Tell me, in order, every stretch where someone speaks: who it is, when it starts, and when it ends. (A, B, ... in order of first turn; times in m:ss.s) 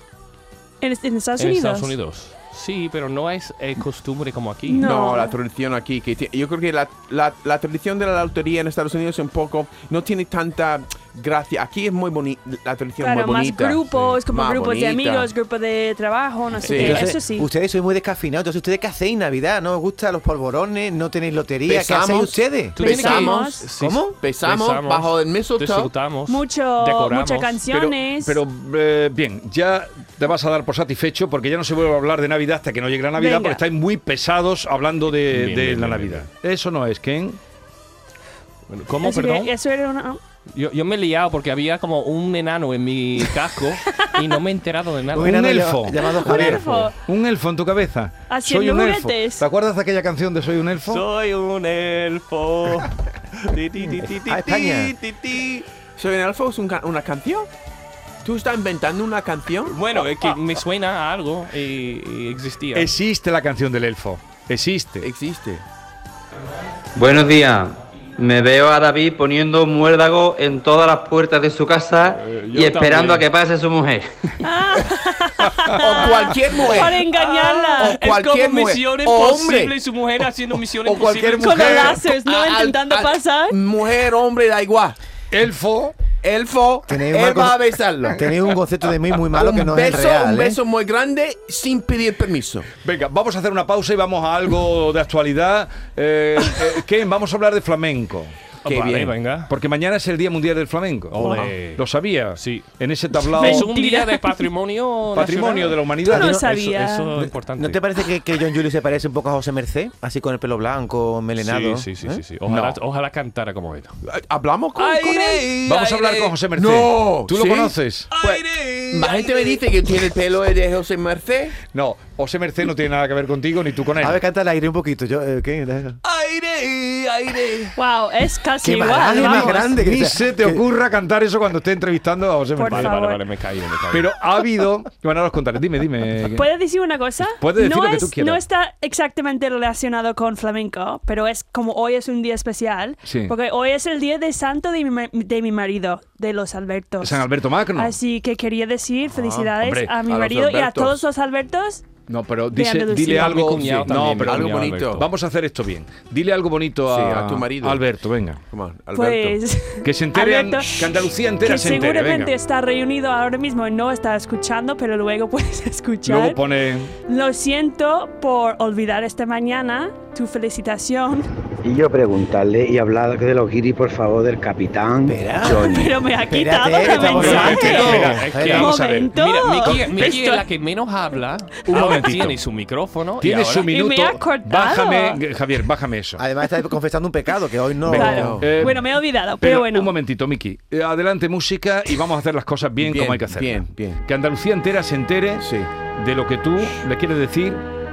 0:00.8-0:01.9 A
0:01.4-0:04.9 B
0:04.7-0:05.3 A
0:04.8-0:15.3 C
0:13.0-0:17.5 A
0:16.6-0:17.0 C
0:16.7-0:22.8 D
0:21.7-0:23.6 C
0:22.8-0:27.7 B
0:22.8-0:23.6 A
0:23.7-0:24.1 D
0:24.1-0:25.9 C
0:26.3-0:28.4 A
0:27.7-0:37.4 E
0:33.2-0:33.6 A
0:35.1-0:36.3 B
0:38.7-0:39.5 B
0:39.0-0:40.2 A
0:40.5-0:45.5 B
0:45.1-0:46.9 D
0:45.2-0:51.0 E
0:46.1-0:46.9 A
0:48.3-0:49.4 A
0:50.8-0:55.4 B
0:54.2-0:54.9 D
0:54.6-0:57.5 C
0:58.2-0:59.8 C
0:59.7-1:02.9 B
1:02.7-1:05.1 E
1:05.0-1:05.6 C
1:07.0-1:14.1 F
1:12.1-1:13.2 B
1:14.4-1:18.0 A
1:15.8-1:17.0 C
1:16.7-1:22.0 B
1:17.8-1:19.8 C
1:20.8-1:22.1 E
1:21.4-1:23.6 A
1:22.1-1:25.0 C
1:25.3-1:25.9 E
1:26.2-1:28.2 C
1:26.9-1:30.6 D
1:29.3-1:32.7 C
1:32.8-1:38.3 E
1:38.6-1:39.5 B
1:38.6-1:39.1 C
1:39.5-1:43.7 E
1:41.1-1:47.8 B
1:43.3-1:44.5 A
1:45.1-1:46.3 E
1:46.0-1:46.4 D
1:46.1-1:47.2 A
1:47.2-1:52.2 D
1:51.4-1:54.0 B
1:52.5-1:52.8 E
1:54.0-1:55.6 C
1:54.8-1:56.3 B
1:55.6-1:58.1 E
1:56.6-2:01.6 C
1:58.1-1:59.6 B
2:01.7-2:04.2 E
2:04.0-2:06.0 D
2:06.0-2:07.7 B
2:07.8-2:09.7 A
2:08.6-2:10.6 D
2:09.1-2:13.0 E
2:12.6-2:13.2 A
2:12.7-2:14.1 B
2:13.9-2:16.5 E
2:16.3-2:31.8 A
2:17.4-2:18.4 E
2:23.0-2:23.3 E
2:27.0-2:28.0 E
2:29.1-2:29.9 E
2:30.0-2:31.0 C
2:32.1-2:38.4 E
2:32.5-2:33.6 A
2:33.0-2:35.1 B
2:34.0-2:35.0 C
2:36.9-2:37.8 C
2:38.5-2:39.4 C
2:38.9-2:46.4 A
2:39.8-2:42.3 E
2:46.0-2:46.9 E
2:47.1-2:51.3 A
2:51.6-2:55.9 G
2:55.0-2:58.7 D
2:55.5-3:00.4 A
2:56.8-3:03.7 B
2:57.1-2:59.1 E
2:59.6-3:00.2 E
3:01.7-3:02.4 E
3:01.8-3:02.1 A
3:03.2-3:06.2 E
3:03.7-3:05.2 A
3:06.2-3:08.5 D
3:07.8-3:09.9 A
3:07.9-3:08.6 C
3:08.0-3:17.6 E
3:12.8-3:14.0 C
3:15.4-3:15.7 C